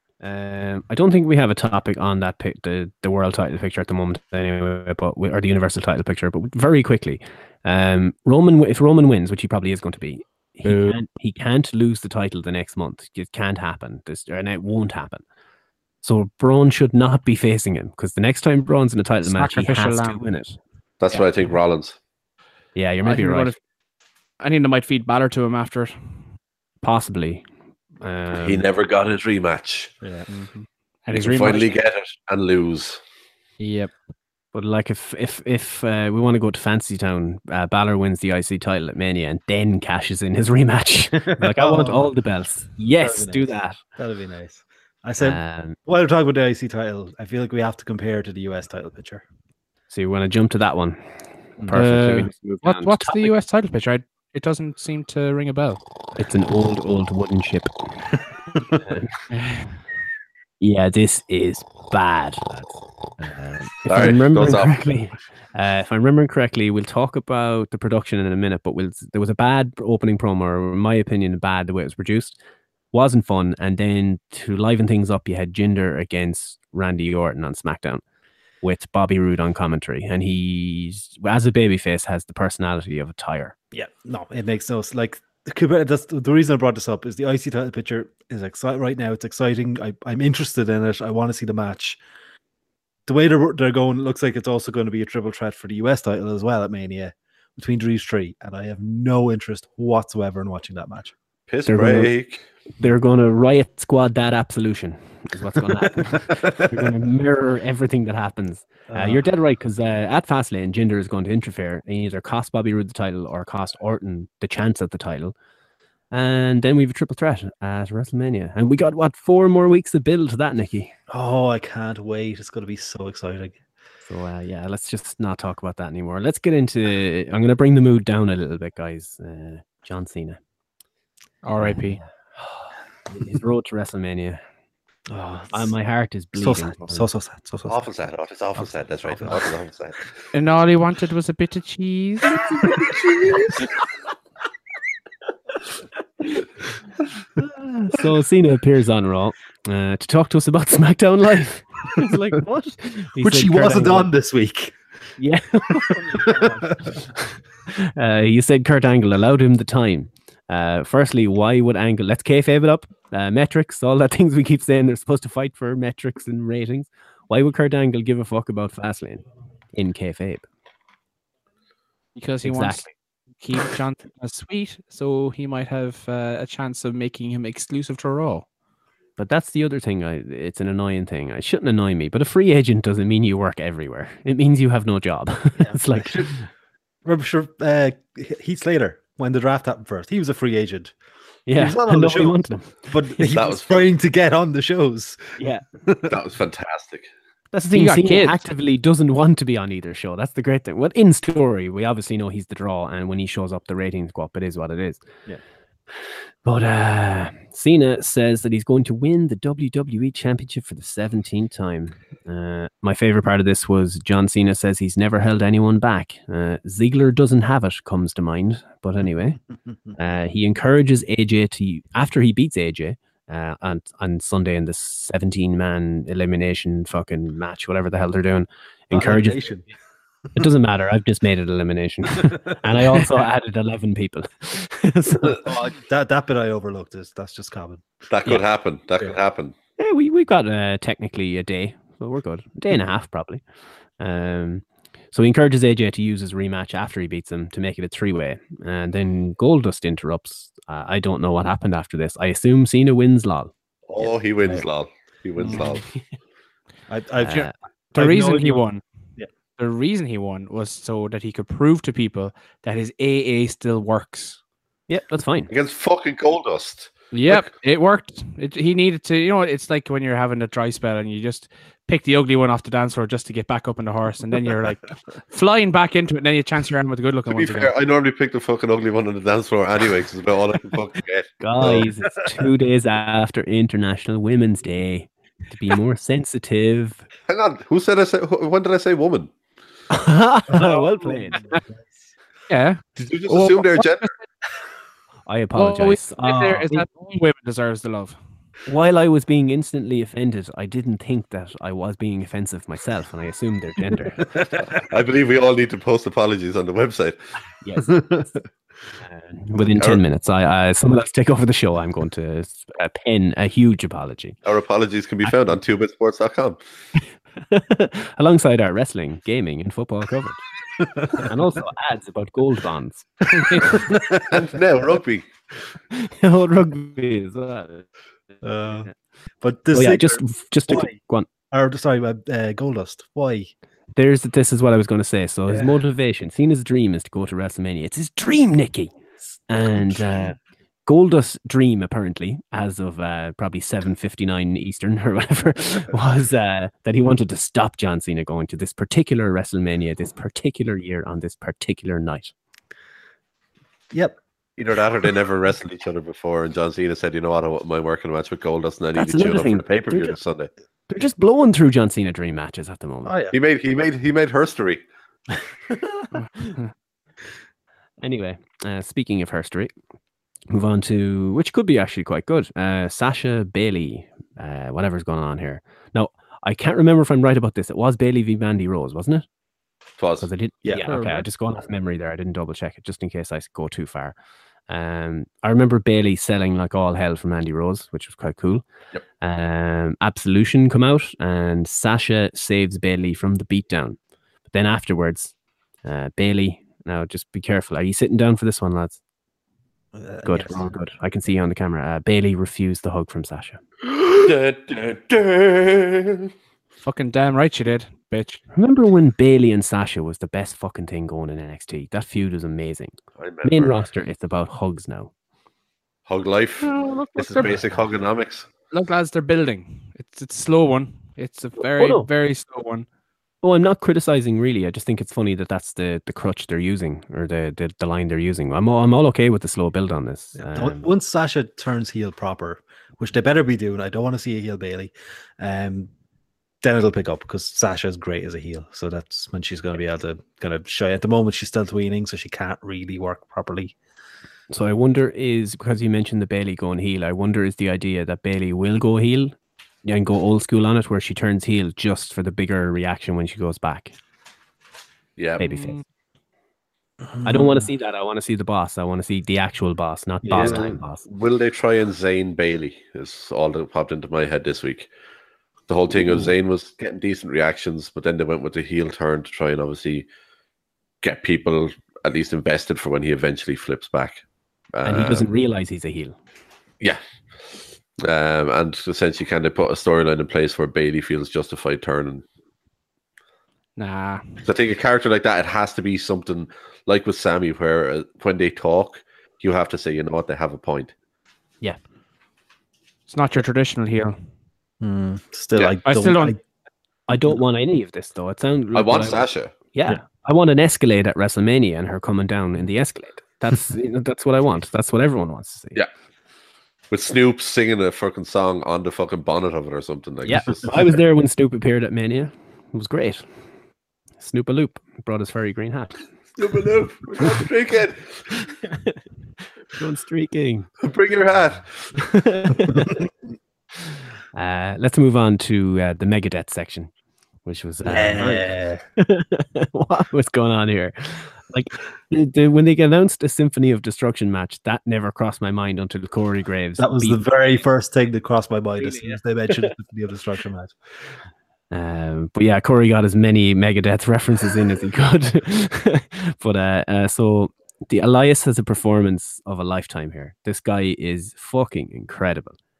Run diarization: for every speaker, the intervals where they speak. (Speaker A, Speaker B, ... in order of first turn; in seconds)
Speaker A: 0.2-15.2, 16.0-20.6, 22.8-23.5, 26.8-27.4, 28.0-28.6, 34.5-43.8, 45.2-45.8, 49.9-53.3, 56.1-57.9, 58.8-59.1, 60.6-72.4, 72.9-78.0, 78.6-83.5, 101.7-102.1, 102.8-115.3, 116.1-120.9, 124.0-130.4, 131.6-134.4, 135.5-137.1, 147.8-154.1, 155.2-156.9, 157.7-170.4, 172.4-172.9, 179.2-186.5, 191.5-193.2, 195.4-195.6, 197.5-205.1, 206.4-219.4, 219.9-229.4, 230.3-235.5, 239.8-243.4, 244.0-253.5, 255.5-256.0, 257.2-257.5, 264.9-265.5, 281.4-287.0, 289.9-291.4, 295.3-296.9, 298.6-304.2, 307.6-308.1, 309.0-314.4, 317.4-320.4, 321.1-323.8, 325.9-327.9, 329.7-331.3, 333.9-352.3, 358.9-360.2, 360.9-363.1, 368.0-369.7, 370.5-379.2, 380.2-384.1, 384.7-388.6, 389.2-399.0, 400.2-403.6, 408.5-415.1, 421.8-422.1, 423.4-430.9, 444.5-454.0, 455.4-455.8, 457.2-461.0, 474.8-476.1, 497.1-505.8, 510.2-513.3, 514.2-516.0, 518.7-519.0, 519.7-520.7, 521.9-523.0, 524.3-526.9, 527.4-537.2, 538.8-539.7, 541.7-552.6
Speaker B: 10.6-11.0, 19.2-20.2, 23.0-23.6, 24.4-26.3, 30.3-31.7, 33.6-33.9, 51.7-55.8, 59.3-59.7, 131.4-132.0, 140.3-142.5, 172.2-178.4, 197.7-198.4, 257.9-258.8, 259.6-264.4, 267.1-277.7, 292.5-294.1, 295.6-298.2, 366.1-366.7, 380.8-381.2, 406.8-408.4, 416.6-417.6, 418.7-422.9, 483.8-484.4, 493.1-494.2, 495.8-496.4
Speaker C: 21.0-22.0, 28.4-29.9, 31.1-33.0, 63.9-64.8, 101.5-102.4, 137.7-140.1, 193.3-193.9, 196.1-197.1, 238.1-239.5, 253.9-255.9, 265.5-267.4, 277.3-281.9, 287.3-289.3, 293.0-294.1, 304.6-307.2, 314.4-316.6, 323.6-325.3, 354.6-360.5, 363.3-364.8, 380.0-380.3, 404.1-406.3, 413.2-413.8, 416.1-418.5, 455.2-455.6, 460.3-464.9, 465.7-470.1, 471.0-474.2, 474.7-475.3, 478.0-482.2, 484.4-490.9, 498.7-499.5, 506.9-510.7, 516.4-518.3, 520.8-521.9
Speaker D: 30.0-30.3, 41.4-42.1, 43.0-49.2, 51.6-51.8, 83.7-92.0, 93.0-101.1, 108.9-109.2, 121.1-123.6, 135.1-135.7, 136.3-137.8, 142.8-143.5, 153.2-154.8, 156.1-157.2, 185.6-186.3, 187.0-190.9, 191.5-196.1, 228.9-229.7, 235.2-237.8, 255.4-255.7, 256.9-258.6, 290.5-291.9, 304.2-304.7, 307.8-308.3, 320.8-321.3, 323.3-324.4, 328.4-330.9, 331.5-333.5, 335.5-335.8, 339.8-340.2, 353.9-354.2, 363.0-363.3, 380.6-381.0, 399.9-400.6, 417.2-417.8, 430.4-435.9, 436.6-443.7, 457.1-457.7, 460.2-460.8, 466.0-466.3, 494.8-496.4, 527.8-528.8, 536.8-540.8